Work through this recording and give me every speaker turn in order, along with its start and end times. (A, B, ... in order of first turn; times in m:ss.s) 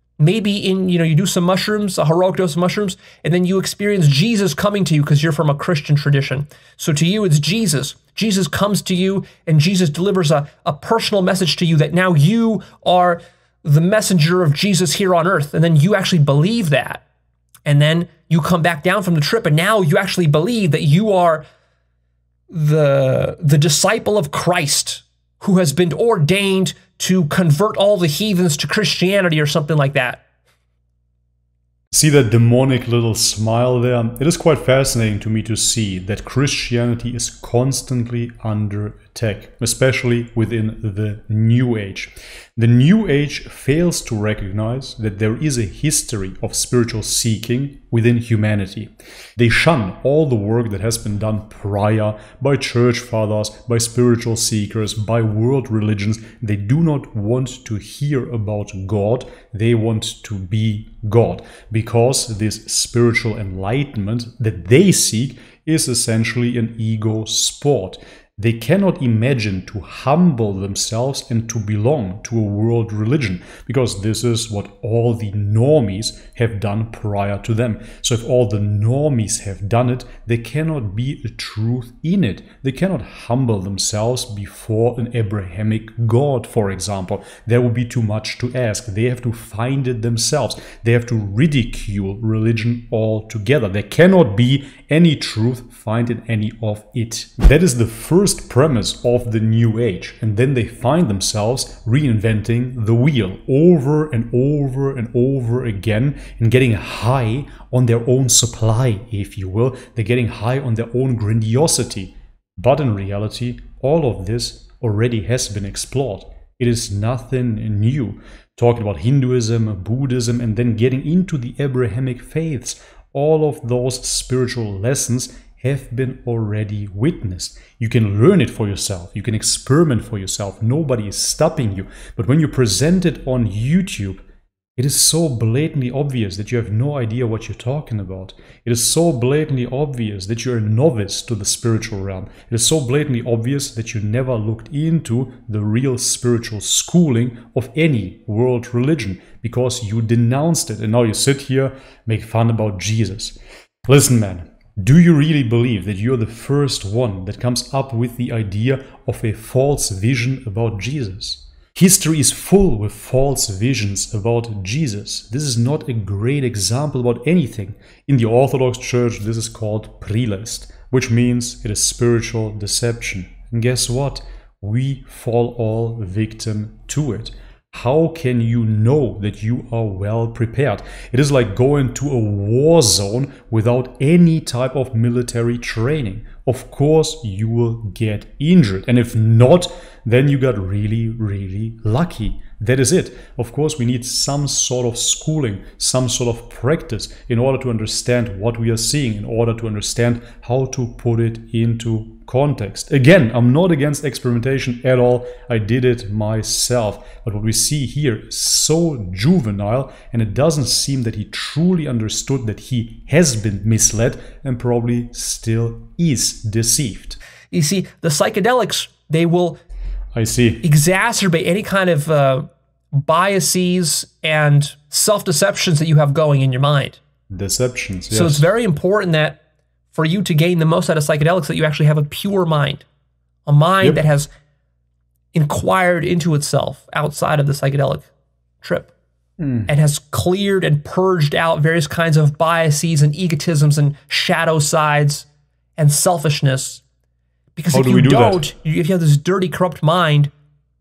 0:00.2-0:17.0 A
0:17.6-0:21.4 A
0:22.5-0:30.2 A
0:31.9-2:14.2 B
2:14.8-3:37.2 B
3:37.5-3:39.6 A
3:40.1-3:40.6 B
3:40.6-3:47.0 A
3:47.3-3:48.5 B
3:48.1-3:49.4 A
3:49.9-3:52.8 A
3:53.4-3:54.3 A
3:55.3-3:58.1 A
3:58.6-3:58.9 A
3:59.4-3:59.7 B
3:59.7-4:06.8 A
4:07.6-4:10.3 A
4:07.7-4:08.4 B